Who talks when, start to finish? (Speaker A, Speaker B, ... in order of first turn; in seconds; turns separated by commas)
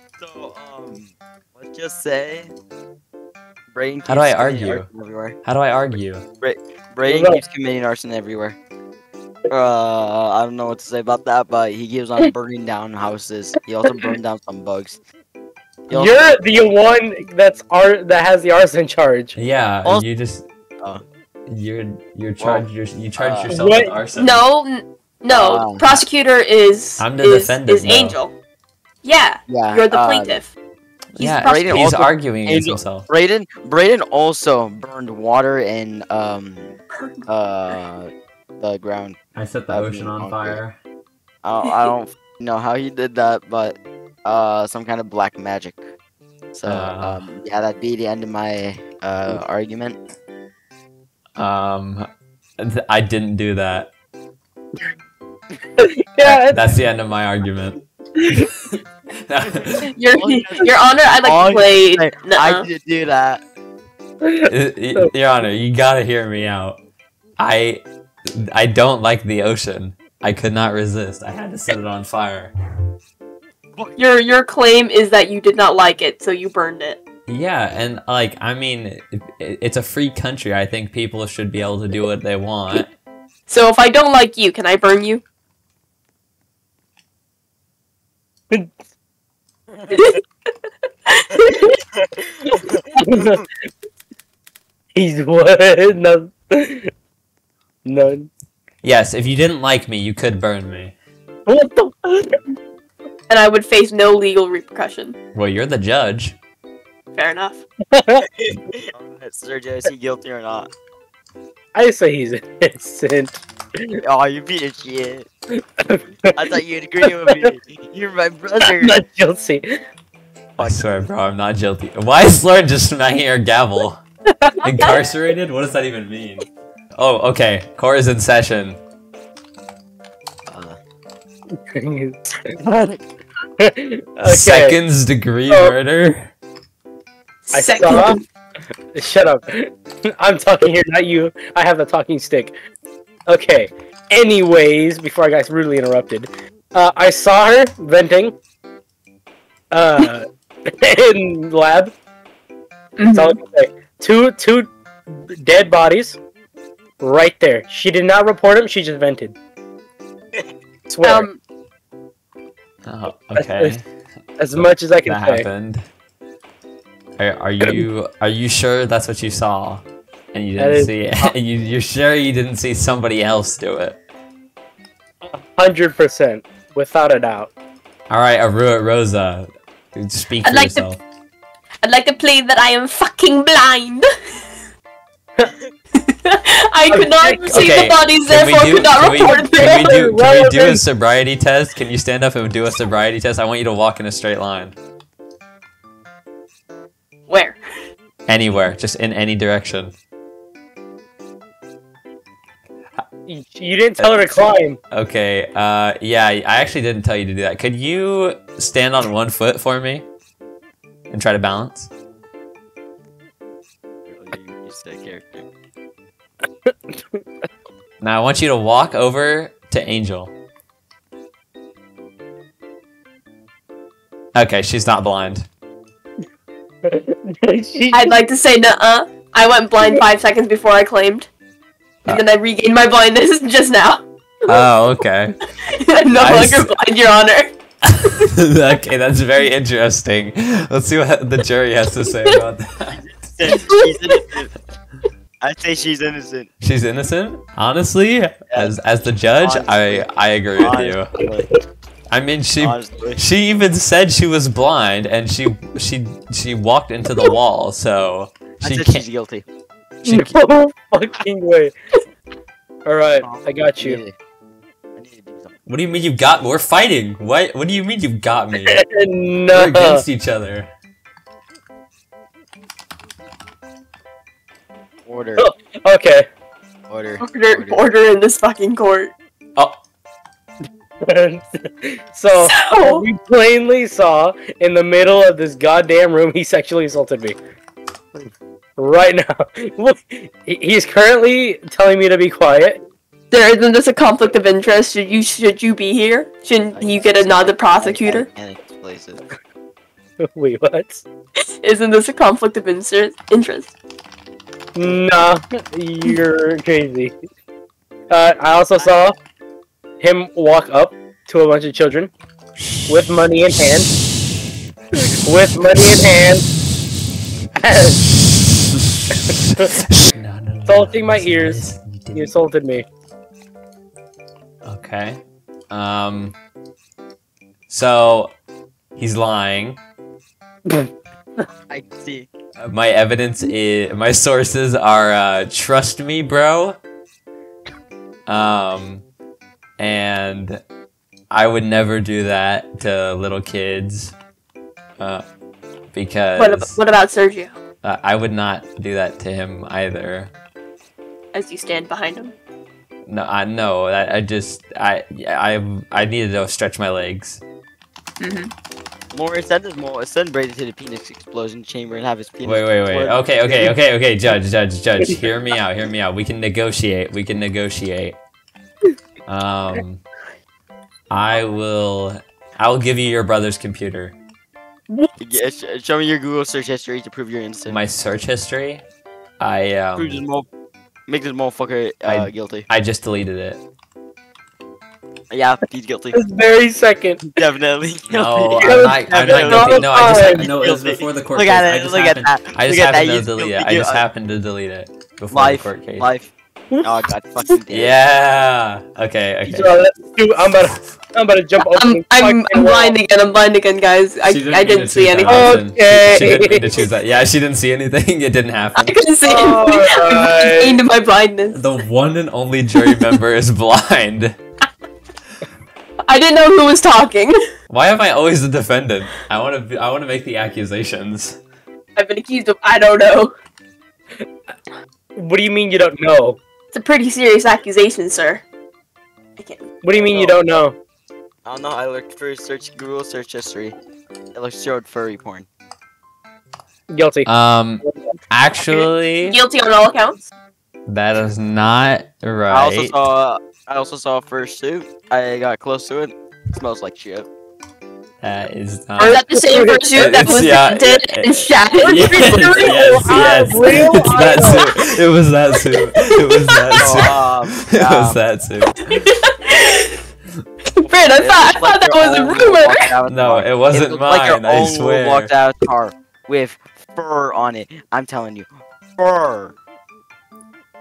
Speaker A: 0.2-2.5, Speaker A: 3.7-5.3, Speaker B: 4.1-4.9, Speaker B: 5.4-6.2, Speaker A: 6.4-8.6, Speaker C: 7.1-7.4, Speaker A: 9.5-15.0, Speaker A: 15.9-16.3, Speaker C: 15.9-19.3, Speaker B: 19.3-20.4, Speaker B: 21.5-24.4, Speaker A: 22.4-22.6, Speaker A: 23.2-23.5, Speaker C: 23.5-23.9, Speaker D: 24.2-28.3, Speaker A: 25.3-25.9, Speaker B: 27.0-28.2, Speaker D: 29.0-30.5, Speaker A: 29.5-30.4, Speaker B: 31.1-33.1, Speaker D: 31.2-31.8, Speaker A: 31.4-36.7, Speaker D: 36.9-37.2, Speaker A: 37.3-39.2, Speaker B: 39.3-40.8, Speaker A: 39.7-40.6, Speaker A: 41.4-45.9, Speaker A: 46.5-50.0, Speaker B: 46.6-47.2, Speaker B: 51.4-52.0, Speaker B: 52.6-53.9, Speaker C: 55.8-56.8, Speaker B: 56.2-57.8, Speaker B: 59.3-59.9, Speaker D: 59.9-62.7, Speaker A: 60.1-63.4, Speaker C: 64.2-65.1, Speaker B: 64.5-66.8, Speaker B: 67.4-67.8, Speaker B: 68.3-72.5, Speaker D: 74.0-77.0, Speaker B: 77.3-82.9, Speaker D: 83.5-85.2, Speaker D: 89.9-90.2, Speaker D: 91.1-91.6, Speaker A: 92.6-93.4, Speaker C: 93.0-93.4, Speaker C: 94.9-96.9, Speaker C: 97.8-98.3, Speaker B: 98.8-100.9, Speaker C: 101.5-102.4, Speaker D: 103.3-105.2, Speaker B: 105.3-106.4, Speaker D: 107.1-107.6, Speaker C: 107.9-108.2, Speaker A: 108.4-110.7, Speaker C: 111.7-113.4, Speaker A: 114.0-115.3, Speaker A: 116.3-119.0, Speaker C: 117.2-117.5, Speaker C: 118.6-119.8, Speaker A: 120.6-120.8, Speaker B: 120.6-124.0, Speaker B: 124.6-128.8, Speaker A: 130.5-130.8, Speaker C: 131.7-133.0, Speaker C: 133.6-134.8, Speaker B: 134.2-136.3, Speaker C: 135.5-135.8, Speaker D: 137.5-138.2, Speaker C: 137.5-138.2, Speaker C: 138.9-142.5, Speaker C: 143.3-148.3, Speaker C: 149.7-150.2, Speaker C: 150.8-151.9, Speaker D: 153.0-153.4, Speaker C: 153.1-154.7, Speaker C: 155.3-156.2, Speaker C: 157.0-159.3, Speaker C: 160.9-161.3, Speaker D: 161.0-161.4, Speaker B: 162.8-163.8, Speaker C: 163.3-163.8, Speaker C: 164.4-165.5, Speaker B: 164.5-165.8, Speaker B: 167.2-174.0, Speaker C: 170.6-170.9, Speaker C: 175.2-177.5, Speaker B: 178.1-181.0, Speaker D: 180.4-180.9, Speaker D: 181.8-184.1, Speaker D: 186.0-190.0, Speaker C: 186.9-187.7, Speaker B: 187.5-194.7, Speaker C: 189.2-190.8, Speaker D: 197.3-197.6, Speaker B: 198.3-199.9, Speaker C: 203.3-204.8, Speaker B: 204.0-210.1, Speaker B: 211.1-211.9, Speaker A: 214.1-215.5, Speaker C: 216.7-217.2, Speaker B: 218.0-220.3, Speaker B: 224.3-225.5, Speaker C: 226.8-228.1, Speaker D: 227.9-231.3, Speaker D: 232.0-234.0, Speaker B: 234.5-235.3, Speaker D: 235.8-237.5, Speaker B: 236.1-236.7, Speaker B: 237.8-243.0, Speaker A: 242.9-244.5, Speaker A: 245.4-246.5, Speaker B: 246.6-251.1, Speaker A: 249.4-251.4, Speaker B: 252.1-259.0, Speaker A: 252.6-253.2, Speaker A: 258.6-259.4, Speaker B: 260.0-260.3, Speaker C: 260.1-261.7, Speaker C: 262.8-264.0, Speaker A: 263.2-264.1, Speaker A: 264.9-265.6, Speaker B: 265.6-268.8, Speaker C: 268.7-270.0, Speaker B: 269.5-270.7, Speaker A: 275.1-275.4, Speaker C: 275.4-276.2, Speaker A: 276.9-277.8, Speaker D: 277.2-279.1, Speaker C: 281.0-287.4, Speaker D: 282.4-283.0, Speaker C: 288.1-292.8, Speaker D: 293.3-298.3, Speaker A: 296.7-299.2, Speaker C: 300.2-301.0, Speaker D: 301.6-303.7, Speaker C: 304.7-307.1, Speaker C: 308.1-309.1, Speaker A: 308.7-309.0, Speaker C: 310.0-312.1, Speaker C: 312.9-313.9, Speaker C: 315.2-316.5, Speaker C: 317.6-318.0, Speaker B: 319.4-322.3, Speaker C: 320.6-322.9, Speaker B: 324.6-326.3, Speaker B: 327.7-328.3, Speaker B: 328.9-329.8, Speaker A: 331.7-332.3, Speaker B: 332.6-336.8, Speaker B: 338.3-339.0, Speaker B: 339.8-340.6, Speaker B: 341.3-344.1, Speaker B: 345.0-345.2, Speaker B: 345.9-346.8, Speaker D: 346.4-347.5, Speaker B: 347.8-350.3, Speaker D: 351.3-352.3, Speaker B: 353.1-357.4, Speaker D: 358.2-358.5, Speaker A: 359.1-363.7, Speaker B: 362.4-368.2, Speaker B: 369.3-370.0, Speaker B: 371.1-374.1, Speaker A: 375.2-377.8, Speaker B: 377.7-378.8, Speaker B: 379.4-380.2, Speaker A: 379.9-380.5, Speaker A: 381.1-382.7, Speaker B: 382.0-383.6, Speaker A: 385.3-386.2, Speaker C: 386.1-387.3, Speaker A: 387.4-394.0, Speaker B: 388.1-396.1, Speaker C: 388.6-390.5, Speaker A: 395.3-396.3, Speaker A: 396.8-397.9, Speaker B: 397.7-399.8, Speaker C: 399.4-403.0, Speaker B: 400.4-400.9, Speaker D: 401.6-405.6, Speaker B: 404.2-408.9, Speaker C: 405.3-406.7, Speaker D: 408.8-411.6, Speaker C: 409.2-410.8, Speaker B: 411.5-414.3, Speaker D: 412.7-413.0, Speaker D: 416.1-417.4, Speaker B: 417.7-421.4, Speaker D: 421.9-423.3, Speaker C: 425.1-426.4, Speaker D: 426.7-428.4, Speaker D: 429.4-429.6, Speaker C: 429.8-430.8, Speaker A: 429.9-430.4, Speaker A: 431.4-433.8, Speaker A: 434.3-435.5, Speaker C: 436.9-438.1, Speaker B: 437.2-439.4, Speaker D: 439.3-440.3, Speaker B: 440.9-442.9, Speaker A: 442.5-447.3, Speaker B: 448.2-449.2, Speaker C: 449.0-450.5, Speaker D: 449.0-453.4, Speaker B: 449.9-458.9, Speaker C: 451.9-454.7, Speaker A: 453.7-454.1, Speaker D: 454.3-454.7, Speaker D: 455.7-457.0, Speaker A: 456.8-458.2, Speaker D: 458.9-459.9, Speaker D: 460.8-462.9, Speaker A: 461.2-469.6, Speaker B: 463.1-465.3